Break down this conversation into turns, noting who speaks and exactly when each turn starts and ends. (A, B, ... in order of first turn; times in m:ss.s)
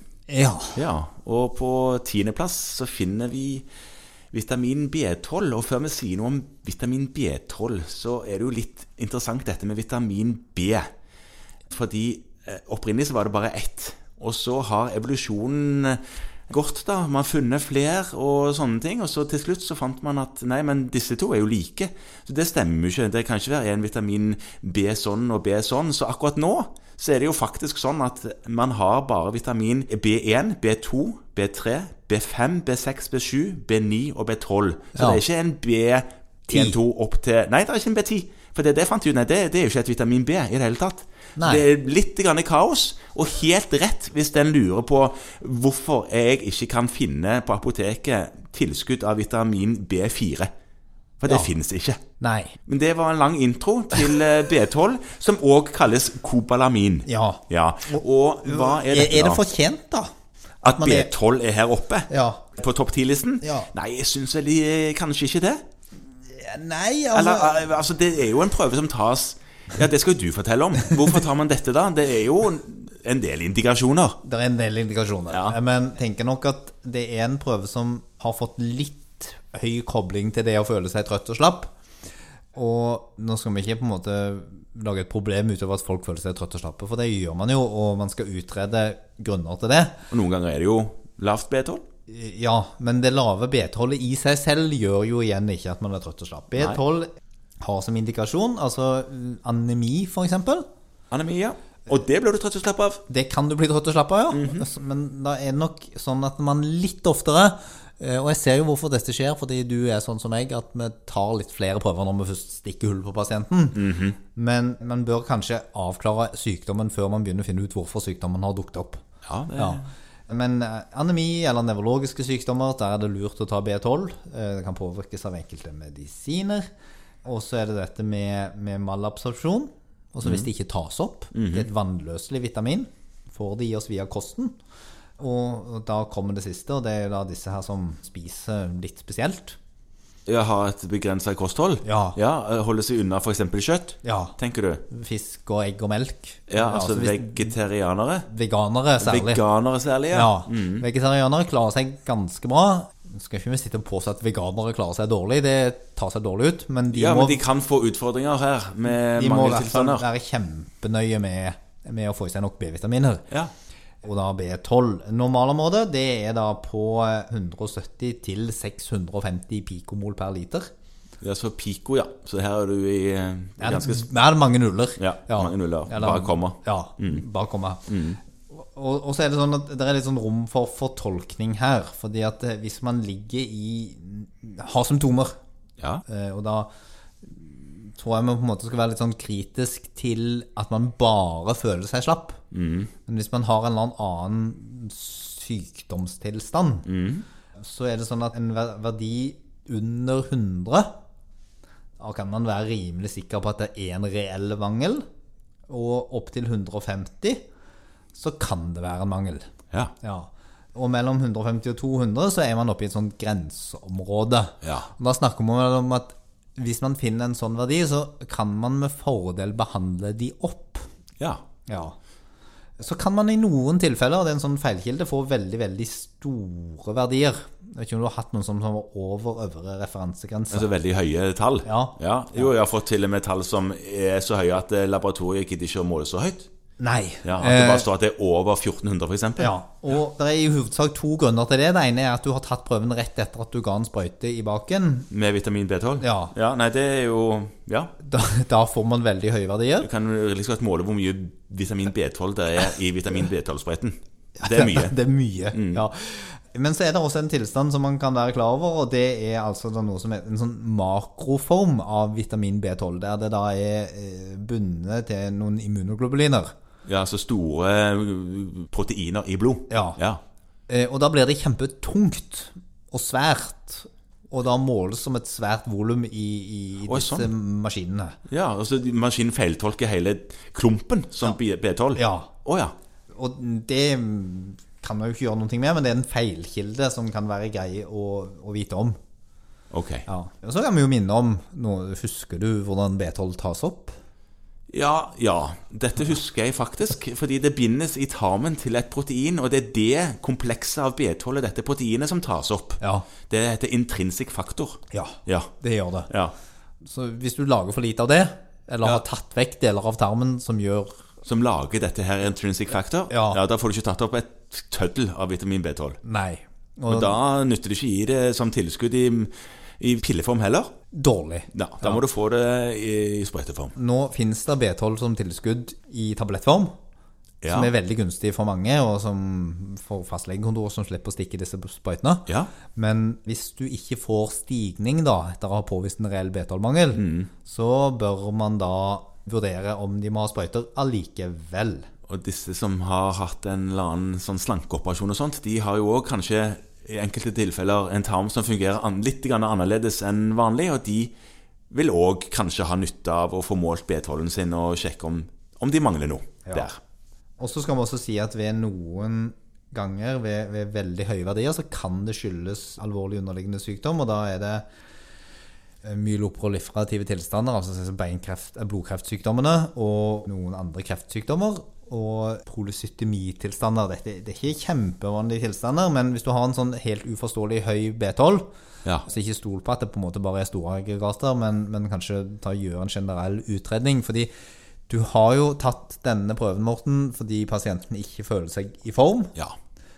0:00.3-0:00.8 A
0:00.7-0:03.6 B
0:04.3-0:10.9 B
0:11.7-0:50.5 B
0:34.9-0:35.2 A
0:36.5-0:36.8 A
0:41.4-0:41.6 A
0:51.2-0:52.0 B
0:52.2-0:52.5 A
0:52.7-0:59.4 B
0:57.0-1:00.1 A
1:00.6-1:05.6 B
1:00.6-1:01.1 A
1:02.1-1:02.5 A
1:03.4-1:03.7 A
1:06.3-1:07.7 A
1:07.1-1:14.2 B
1:14.2-1:21.7 A
1:15.3-1:15.6 B
1:22.5-1:30.0 A
1:30.1-1:31.8 B
1:32.1-1:37.1 A
1:37.6-1:40.6 A
1:41.1-1:43.0 B
1:43.1-1:59.0 A
1:44.3-1:44.6 B
1:53.7-1:54.2 B
1:59.2-1:59.8 B
1:59.6-2:06.7 A
2:07.2-2:14.5 A
2:10.2-2:10.5 B
2:11.3-2:11.7 B
2:15.2-2:19.6 A
2:20.3-2:24.8 B
2:21.8-2:22.2 A
2:24.0-2:24.3 A
2:24.9-2:27.6 A
2:26.5-2:28.3 B
2:28.3-2:29.4 A
2:29.0-2:30.8 B
2:30.1-2:37.4 A
2:36.9-2:40.0 B
2:38.9-2:43.2 A
2:44.0-2:50.7 A
2:51.2-2:54.1 B
2:53.6-2:57.9 A
2:55.0-2:57.2 B
2:57.9-2:58.2 B
2:58.5-3:05.4 A
3:06.0-3:06.7 A
3:07.2-3:12.4 A
3:12.5-3:12.9 B
3:13.0-3:16.9 A
3:16.8-3:17.2 B
3:17.6-3:20.9 A
3:22.0-3:25.0 A
3:25.7-3:27.4 A
3:28.1-3:29.5 A
3:30.0-3:40.8 A
3:34.6-3:34.9 B
3:41.7-3:42.0 A
3:42.8-3:50.7 A
3:50.5-3:56.5 B
3:51.6-3:52.5 A
3:56.8-3:57.9 A
3:57.2-3:59.5 B
3:59.4-4:05.1 A
4:05.1-4:07.9 B
4:06.0-4:06.3 A
4:08.0-4:09.9 A
4:09.8-4:14.9 B
4:14.4-4:26.5 A
4:15.5-4:15.8 B
4:26.8-4:30.2 B
4:29.7-4:30.0 A
4:30.7-4:38.2 A
4:36.8-4:37.3 B
4:38.3-4:42.7 B
4:41.9-4:42.3 A
4:43.1-4:49.0 A
4:49.7-4:50.0 B
4:50.1-4:54.0 A
4:54.7-5:05.5 B
5:02.8-5:03.1 A
5:04.9-5:06.1 A
5:06.8-5:11.0 A
5:11.2-5:16.0 B
5:13.1-5:13.4 A
5:16.0-5:17.1 A
5:16.9-5:20.7 B
5:20.9-5:22.0 A
5:21.5-5:23.7 B
5:23.8-5:26.7 A
5:27.4-5:27.7 B
5:27.5-5:41.9 A
5:36.9-5:37.3 B
5:42.1-5:51.1 B
5:51.7-5:56.8 B
5:57.4-6:04.6 A
6:05.8-6:18.5 A
6:19.0-6:24.3 A
6:24.9-6:29.3 A